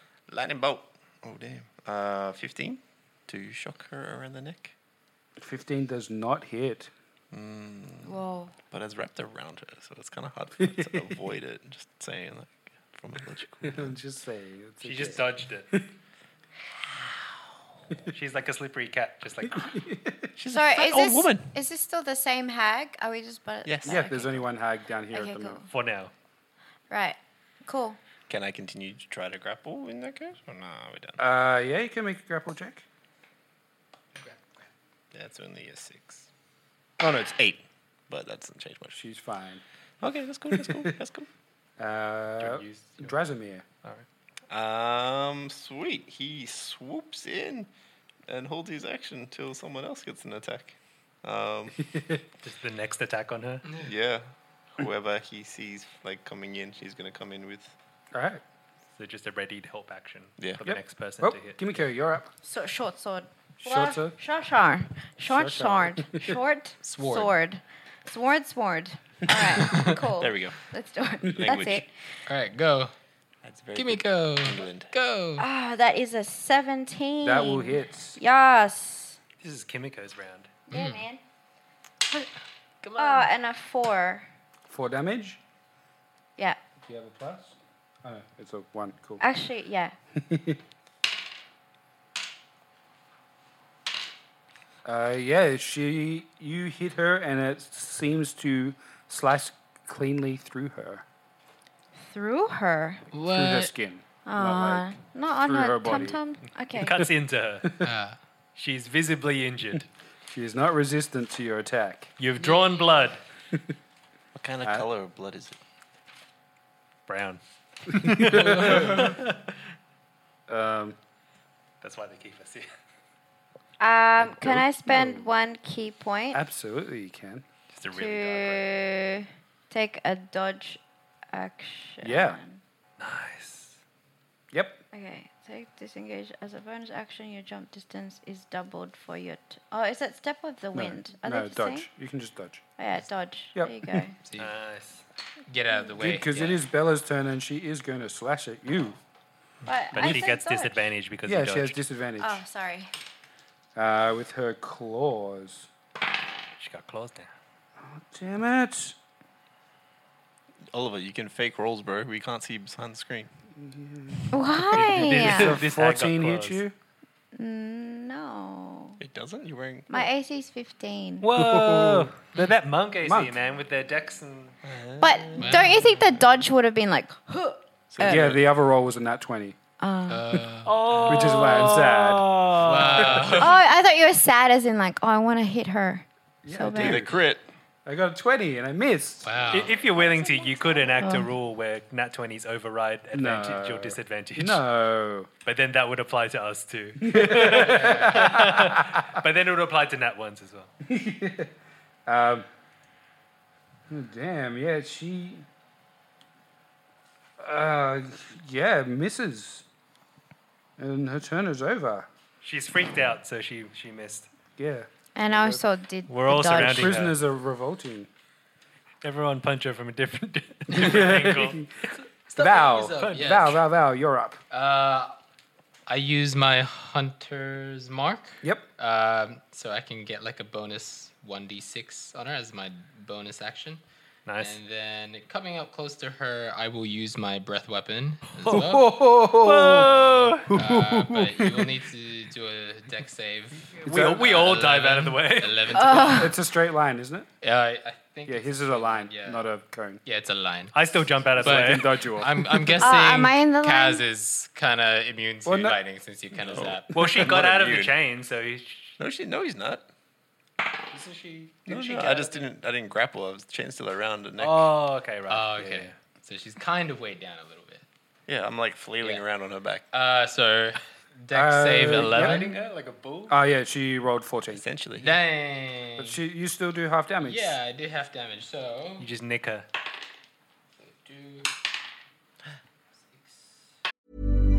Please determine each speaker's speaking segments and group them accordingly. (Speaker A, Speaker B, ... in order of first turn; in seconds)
Speaker A: 0.3-4.7, 7.3-13.9, 20.4-21.5, 23.6-24.1, 28.3-31.2, 35.1-36.3, 37.0-39.0, 40.0-41.3, 44.5-47.7, 48.3-51.8, 53.8-57.8, 70.2-70.6, 71.3-71.9, 73.4-74.9, 114.3-115.6, 160.7-163.3, 169.0-170.1, 174.7-175.7, 177.9-178.4, 180.9-181.4, 186.7-187.4, 256.4-258.0, 259.0-259.9, 261.7-264.7, 268.3-269.9, 274.5-275.2
Speaker B: 5.4-6.9, 10.6-11.2, 13.6-15.9, 19.6-20.3, 23.9-25.6, 31.2-32.9, 38.9-39.6, 40.5-41.0, 41.8-43.6, 51.9-52.2, 58.1-58.4, 60.6-62.3, 63.6-64.2, 65.3-66.4, 77.2-78.2, 84.7-85.4, 86.8-89.2, 90.2-90.6, 94.8-101.0, 103.3-106.2, 110.3-112.1, 118.0-119.0, 120.5-121.0, 124.2-125.3, 126.3-127.5, 132.0-132.4, 134.5-134.8, 140.7-142.7, 143.6-144.1, 146.0-149.0, 150.0-150.2, 151.3-152.4, 153.8-155.7, 157.8-159.0, 163.6-166.7, 171.3-172.1, 173.0-173.3, 178.0-179.6, 181.1-182.5, 186.4-187.2, 187.9-189.4, 193.1-195.3, 197.0-199.2, 200.8-201.5, 202.1-202.5, 203.9-205.5, 207.4-209.7, 210.8-212.1, 214.6-215.6, 216.4-218.1, 220.7-221.7, 222.4-224.4, 228.4-228.7, 238.5-239.9, 240.5-241.8, 243.9-244.3, 246.1-247.3, 248.3-250.0, 251.4-252.9, 255.4-255.8, 271.3-272.6, 273.3-274.6, 276.0-277.6
Speaker C: 8.0-8.5, 20.5-24.4, 25.1-25.7, 26.9-28.0, 62.4-71.9, 75.4-79.2, 80.7-81.2, 83.0-84.3, 89.2-89.9, 102.0-103.1, 104.3-107.0, 123.8-126.4, 127.9-130.8, 131.3-132.6, 134.9-141.9, 142.8-144.2, 149.7-150.8, 152.2-152.9, 164.3-165.6, 167.3-169.0, 169.9-171.3, 175.0-178.3, 179.8-180.4, 183.4-187.1, 190.0-191.3, 215.2-217.0, 245.7-246.3, 252.8-254.0
Speaker D: 14.8-15.7, 18.1-19.8, 25.7-26.1, 52.4-53.7, 59.0-61.8, 79.4-80.6, 106.7-107.7, 108.6-109.9, 112.2-113.2, 117.1-119.6, 121.8-122.7, 127.7-128.8, 133.0-133.8, 144.4-145.0, 149.9-151.8, 156.6-157.3, 164.7-166.6, 171.2-174.6, 180.7-183.6, 189.5-194.6, 195.4-200.7, 212.4-214.3, 216.1-217.2, 219.0-221.7, 223.0-223.4, 234.3-234.6, 238.3-240.5, 243.8-245.8, 250.7-252.2, 256.9-259.0, 260.9-262.5, 264.4-265.9, 271.8-273.4, 279.0-279.7
Speaker E: 66.8-67.4, 72.3-72.9, 73.8-75.5, 80.7-81.0, 82.8-83.3, 103.1-103.7, 107.8-108.2, 112.4-113.0, 118.4-119.1, 144.2-144.5, 145.5-146.6, 175.4-176.0, 180.1-180.8, 182.5-183.7, 189.2-189.8, 197.5-198.4, 222.3-223.6, 224.5-225.2, 225.9-233.8, 234.4-239.0, 239.7-246.3, 247.4-249.5, 250.1-250.8, 251.4-257.0, 265.3-267.8, 269.9-272.6, 275.0-276.2, 277.2-279.1, 280.8-281.5, 283.1-283.4